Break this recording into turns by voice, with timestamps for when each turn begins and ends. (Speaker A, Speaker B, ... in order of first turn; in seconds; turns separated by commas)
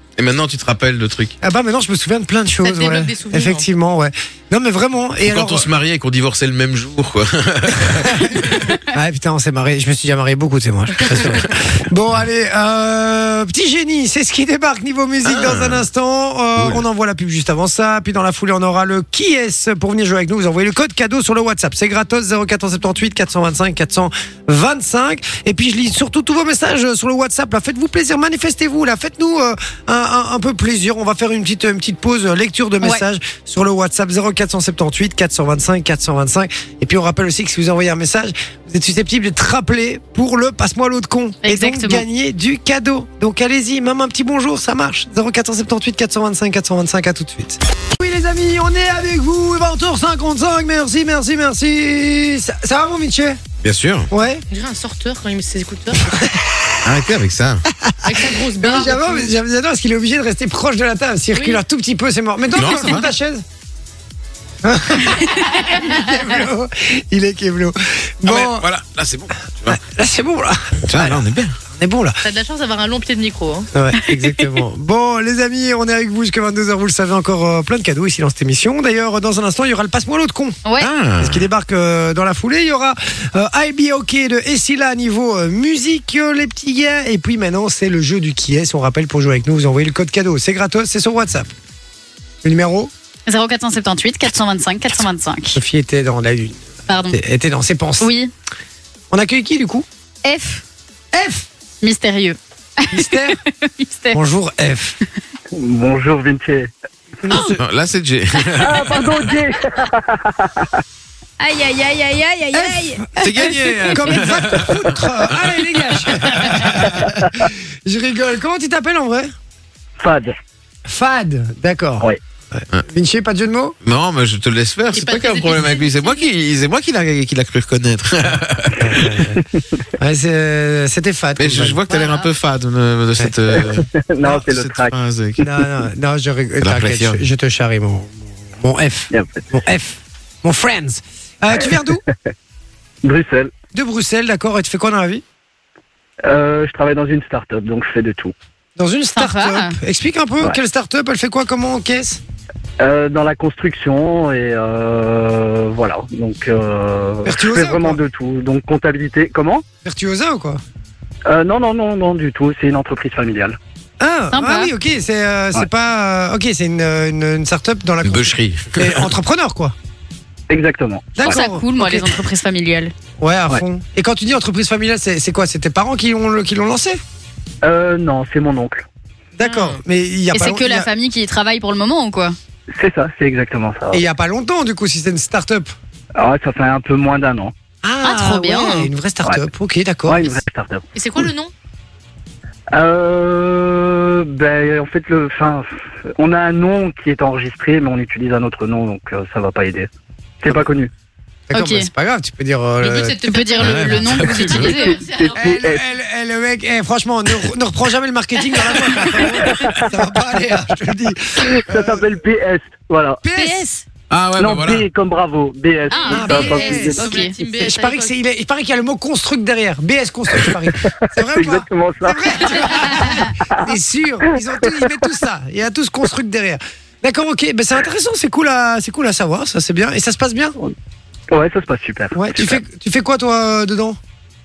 Speaker A: 0.2-1.4, Speaker B: 1.4-5.7, Speaker C: 2.6-3.7, Speaker A: 5.2-8.6, Speaker B: 7.9-53.4, Speaker A: 11.2-11.4, Speaker A: 15.2-15.8, Speaker A: 16.6-16.8, Speaker D: 41.4-42.0, Speaker A: 53.6-54.1, Speaker B: 54.1-54.4, Speaker C: 54.5-56.1, Speaker B: 56.0-56.6, Speaker A: 56.8-57.6, Speaker B: 57.8-63.4, Speaker C: 58.0-59.3, Speaker C: 61.3-61.6, Speaker A: 62.5-63.1, Speaker B: 64.6-68.7, Speaker A: 68.2-69.8, Speaker B: 69.7-72.2, Speaker A: 70.9-71.6, Speaker C: 72.2-73.7, Speaker B: 73.7-80.6, Speaker D: 80.7-80.9, Speaker A: 80.8-81.5, Speaker B: 81.2-91.5, Speaker B: 92.4-92.9, Speaker D: 93.3-95.6, Speaker B: 95.5-98.1, Speaker D: 96.9-97.2, Speaker D: 98.0-98.3, Speaker B: 99.1-99.9, Speaker D: 100.2-100.6, Speaker B: 101.1-101.5, Speaker D: 101.8-103.0, Speaker B: 102.9-103.4, Speaker D: 103.6-104.2, Speaker B: 104.1-105.0, Speaker E: 105.5-106.7, Speaker B: 107.2-107.6, Speaker A: 107.5-109.3, Speaker E: 108.6-110.8, Speaker D: 111.4-113.9, Speaker B: 112.5-119.3, Speaker A: 113.2-115.5, Speaker E: 117.1-117.5, Speaker E: 120.0-120.3, Speaker B: 120.9-123.8, Speaker A: 123.8-129.2, Speaker C: 124.9-126.3, Speaker B: 128.8-129.4, Speaker B: 130.0-131.8, Speaker A: 131.4-135.4, Speaker C: 132.0-132.2, Speaker E: 133.7-135.0, Speaker B: 135.4-142.0, Speaker A: 136.6-137.2, Speaker E: 139.1-139.4, Speaker E: 141.6-141.9, Speaker E: 143.0-143.5, Speaker B: 143.7-145.2, Speaker E: 146.2-148.3, Speaker B: 148.8-152.2, Speaker D: 149.2-149.8, Speaker E: 152.8-159.7, Speaker B: 157.2-158.0, Speaker B: 159.8-160.6, Speaker E: 161.3-163.6, Speaker B: 164.0-169.8, Speaker D: 164.3-164.7, Speaker A: 168.0-169.1, Speaker E: 170.5-171.3, Speaker B: 171.2-172.3, Speaker D: 171.2-172.9, Speaker B: 173.2-177.0, Speaker E: 177.6-178.9, Speaker B: 179.4-180.9, Speaker D: 179.5-179.7, Speaker D: 180.3-182.4, Speaker E: 182.7-184.0, Speaker B: 183.9-185.7, Speaker E: 186.2-187.5, Speaker B: 187.8-190.3, Speaker D: 188.0-188.9, Speaker E: 190.1-190.9, Speaker C: 190.9-191.5, Speaker E: 192.7-199.9, Speaker E: 200.4-200.9, Speaker B: 201.5-203.2, Speaker D: 201.5-201.9, Speaker C: 202.8-205.7, Speaker D: 203.3-205.0, Speaker A: 203.6-204.7, Speaker E: 204.8-205.8, Speaker B: 205.4-212.0, Speaker E: 209.5-210.0, Speaker E: 211.4-213.2, Speaker B: 213.2-213.7, Speaker D: 213.4-213.8, Speaker A: 214.1-214.9, Speaker E: 214.4-217.2, Speaker D: 215.9-217.3, Speaker C: 215.9-218.1, Speaker B: 216.1-230.6, Speaker E: 220.9-222.8, Speaker D: 222.9-223.3, Speaker E: 224.3-224.9, Speaker E: 231.3-232.6, Speaker B: 232.1-234.0